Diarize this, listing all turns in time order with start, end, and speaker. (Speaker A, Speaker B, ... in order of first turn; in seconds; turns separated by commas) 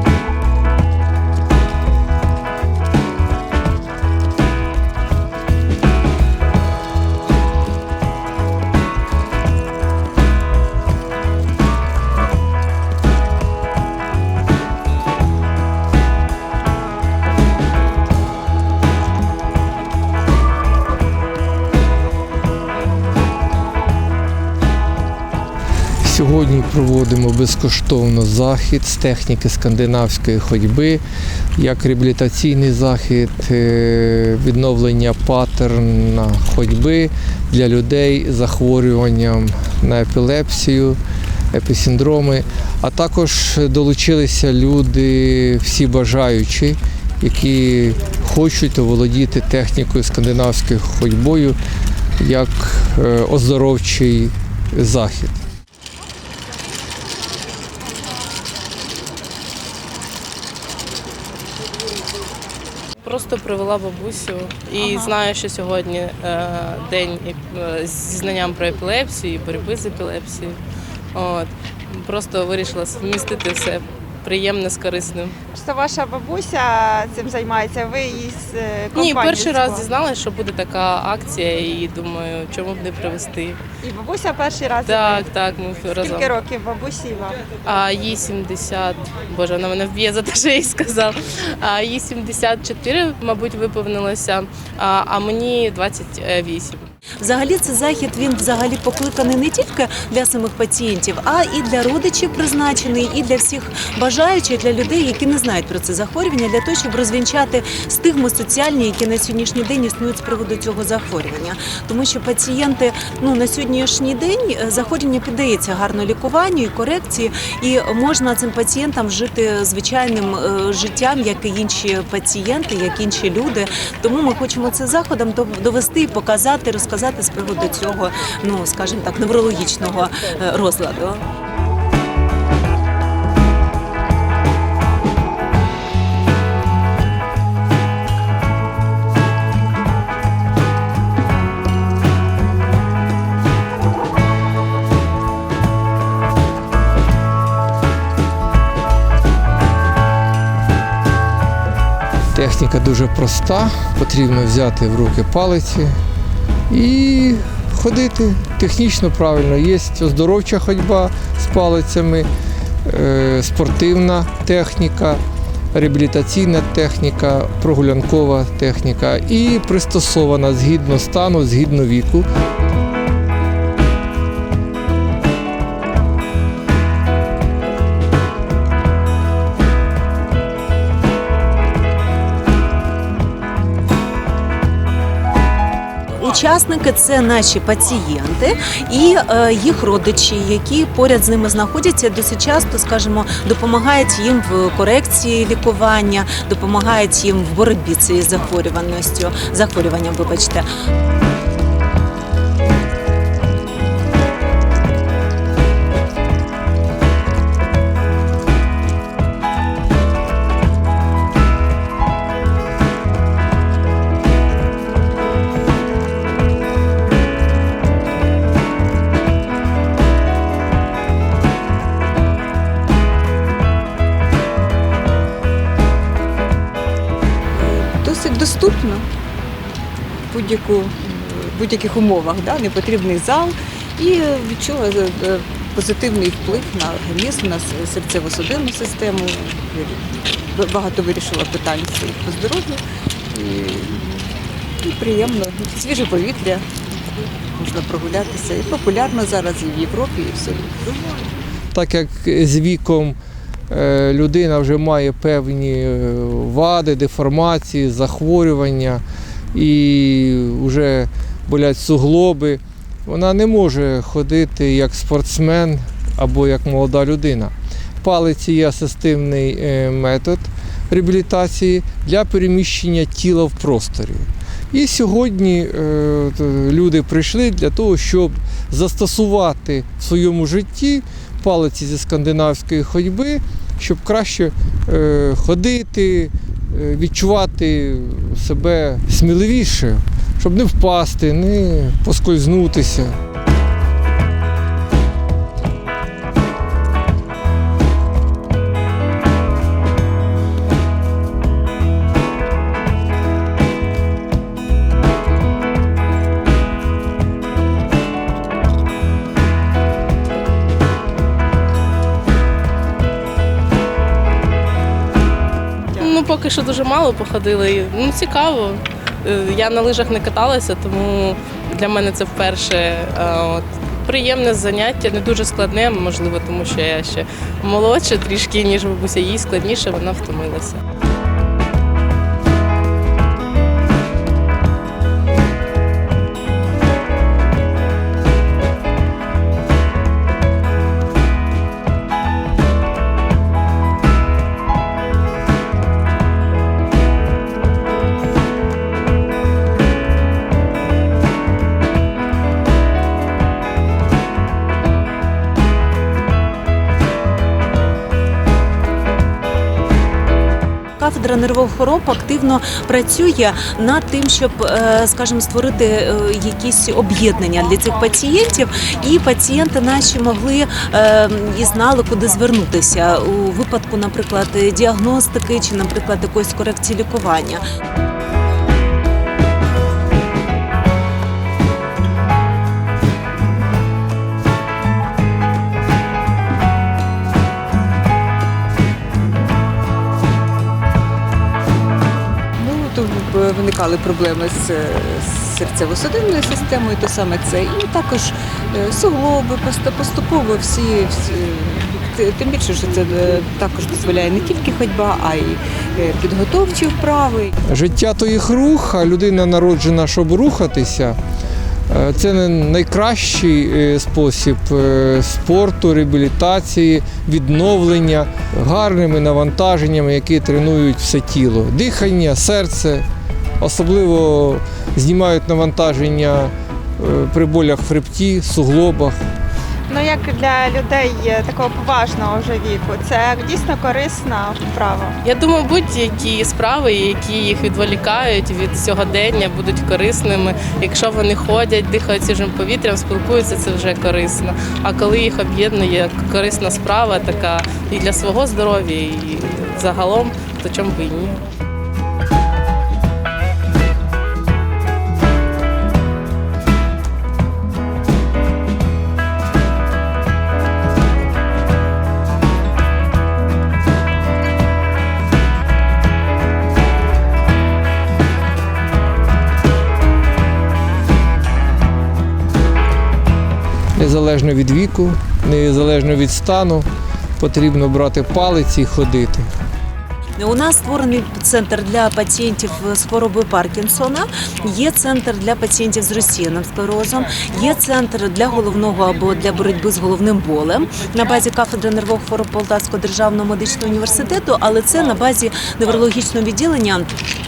Speaker A: 26.0-31.0, Speaker A: 31.6-41.0, Speaker A: 41.5-51.6, Speaker A: 52.2-55.4, Speaker B: 63.0-70.6, Speaker B: 71.1-75.3, Speaker C: 75.5-79.8, Speaker B: 78.9-83.6, Speaker C: 83.8-85.2, Speaker B: 84.8-86.4, Speaker C: 86.0-87.3, Speaker B: 87.6-96.9, Speaker D: 97.2-131.2, Speaker A: 152.3-155.9, Speaker A: 156.7-162.3, Speaker A: 162.8-165.2, Speaker A: 165.7-172.3, Speaker D: 186.2-200.6, Speaker E: 227.5-229.1, Speaker E: 230.3-250.9, Speaker A: 251.7-253.2, Speaker A: 253.7-259.0, Speaker A: 259.5-293.2, Speaker B: 316.0-330.8, Speaker D: 361.0-377.6, Speaker E: 392.6-407.5, Speaker A: 407.7-411.2, Speaker A: 411.9-423.1, Speaker A: 423.6-429.2, Speaker C: 429.9-435.1, Speaker B: 435.2-451.4, Speaker A: 473.9-476.9, Speaker A: 477.4-479.5, Speaker D: 480.4-497.1